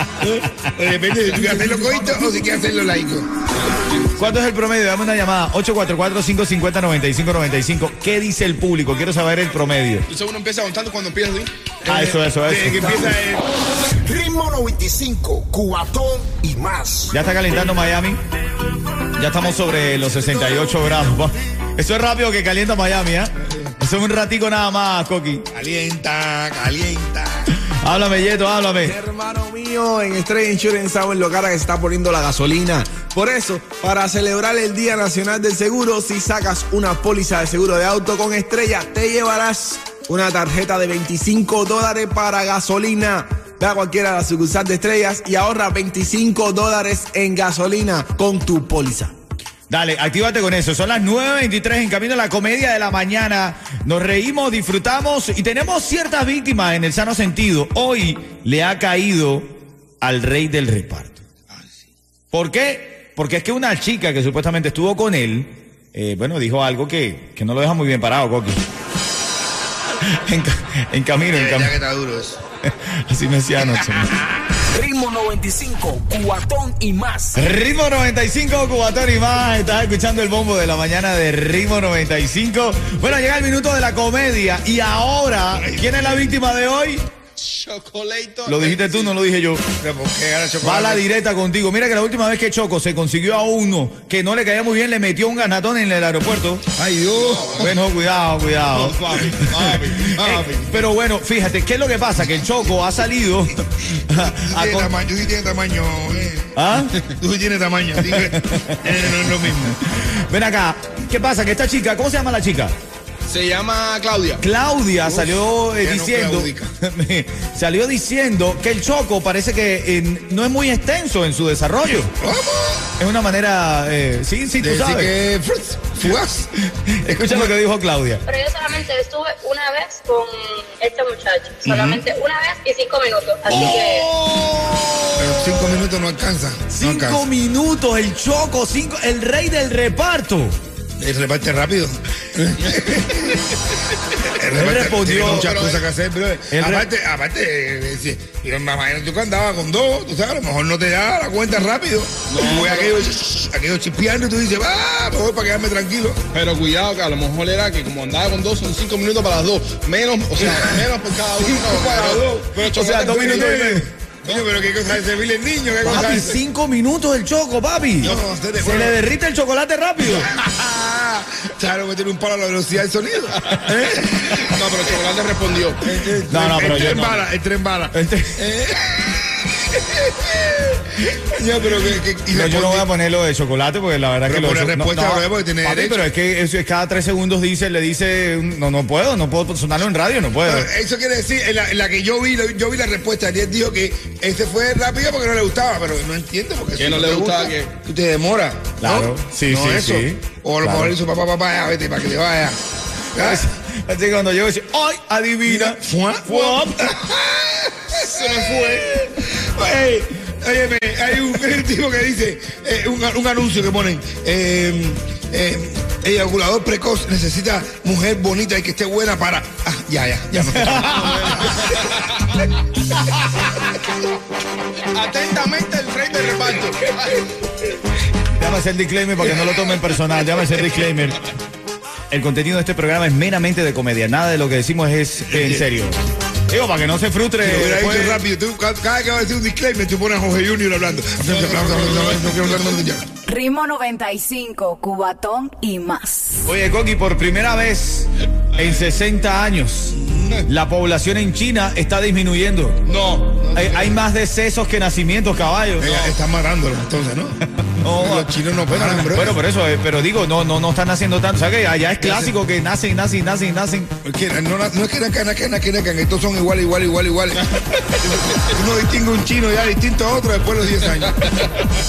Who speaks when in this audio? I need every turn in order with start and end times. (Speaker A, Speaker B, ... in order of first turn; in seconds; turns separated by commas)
Speaker A: 0.2-0.6, Speaker B: 0.6-3.3, Speaker A: 4.1-10.1, Speaker C: 10.1-11.5, Speaker B: 11.8-13.5, Speaker A: 11.8-13.2, Speaker D: 13.9-17.1, Speaker A: 17.1-18.2, Speaker A: 19.1-25.4, Speaker B: 25.5-27.5, Speaker A: 27.8-28.9, Speaker E: 28.8-49.1, Speaker A: 49.7-59.5, Speaker A: 60.0-61.2, Speaker A: 62.3-68.6, Speaker A: 70.1-71.7, Speaker B: 71.2-72.4, Speaker A: 72.6-74.3, Speaker D: 74.7-77.3, Speaker A: 77.3-87.0, Speaker B: 85.5-86.4, Speaker E: 87.4-89.1, Speaker A: 88.5-89.6, Speaker B: 89.8-91.0, Speaker A: 90.6-96.6, Speaker B: 96.7-97.8, Speaker A: 97.5-104.9, Speaker C: 98.7-100.7, Speaker B: 100.1-100.5, Speaker B: 104.0-106.5, Speaker A: 106.5-107.0, Speaker B: 107.0-109.8, Speaker A: 108.0-112.7, Speaker E: 113.3-114.2, Speaker C: 113.4-114.4, Speaker A: 114.4-122.1, Speaker B: 115.0-116.7, Speaker B: 122.2-122.8, Speaker A: 123.0-125.1, Speaker B: 124.6-126.5, Speaker A: 126.9-128.2, Speaker F: 128.2-134.1, Speaker B: 131.7-132.0, Speaker A: 133.5-135.8, Speaker B: 135.2-137.2, Speaker A: 136.7-140.6, Speaker B: 141.0-156.2, Speaker A: 144.4-145.6, Speaker C: 145.4-145.8, Speaker A: 146.5-146.9, Speaker C: 152.3-152.9, Speaker C: 156.3-163.5, Speaker B: 160.4-166.4, Speaker A: 162.7-163.9, Speaker A: 165.8-170.3, Speaker B: 168.0-169.0, Speaker B: 170.0-174.9, Speaker C: 174.5-175.8, Speaker B: 175.8-182.9, Speaker A: 176.3-177.2, Speaker A: 177.9-178.4, Speaker A: 182.3-190.7, Speaker B: 184.2-186.0, Speaker B: 190.4-202.6, Speaker C: 196.8-197.5, Speaker A: 198.8-200.9, Speaker B: 203.1-203.4, Speaker A: 203.1-206.9, Speaker B: 205.4-221.7, Speaker A: 208.2-208.8, Speaker A: 220.4-221.7, Speaker E: 224.8-226.9, Speaker A: 228.3-231.3, Speaker A: 232.1-236.0, Speaker B: 235.3-235.6, Speaker A: 236.5-238.2, Speaker B: 237.4-243.1, Speaker C: 241.4-242.0, Speaker G: 243.2-246.4, Speaker A: 246.4-252.8, Speaker B: 249.9-250.4, Speaker B: 252.8-254.0, Speaker A: 253.5-256.1, Speaker B: 255.8-259.4, Speaker A: 257.7-263.9, Speaker B: 262.0-262.3, Speaker B: 264.0-267.5, Speaker B: 268.2-271.2